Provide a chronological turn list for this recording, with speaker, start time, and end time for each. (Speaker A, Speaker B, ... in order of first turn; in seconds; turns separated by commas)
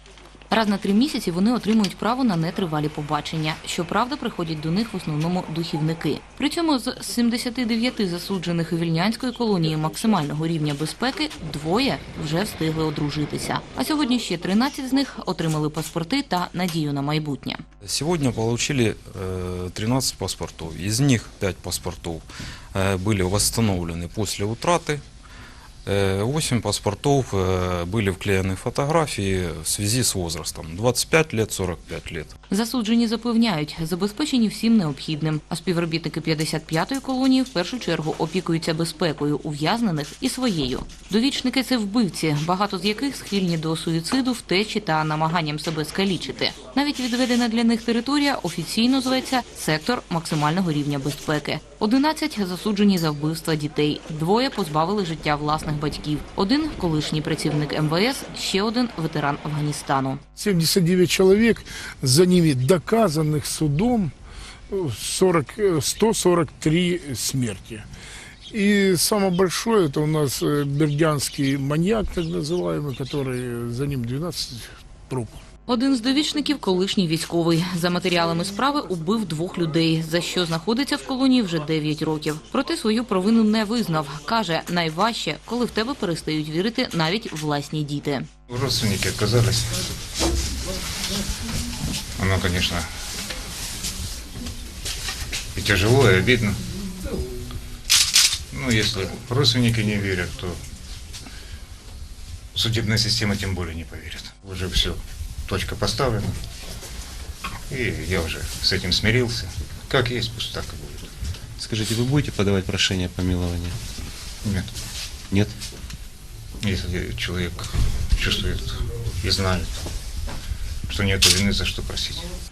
Speaker A: 0.5-17.6, Speaker B: 17.8-25.0, Speaker B: 25.9-32.3, Speaker A: 32.5-60.2, Speaker C: 60.3-64.1, Speaker C: 64.7-67.8, Speaker C: 68.5-75.4, Speaker A: 75.7-88.3, Speaker D: 88.5-89.7, Speaker D: 92.2-92.8, Speaker D: 95.5-96.6, Speaker D: 98.5-100.6, Speaker D: 102.5-106.3, Speaker D: 107.7-111.1, Speaker E: 111.6-113.8, Speaker D: 114.4-114.7, Speaker D: 116.6-119.7, Speaker D: 120.9-122.3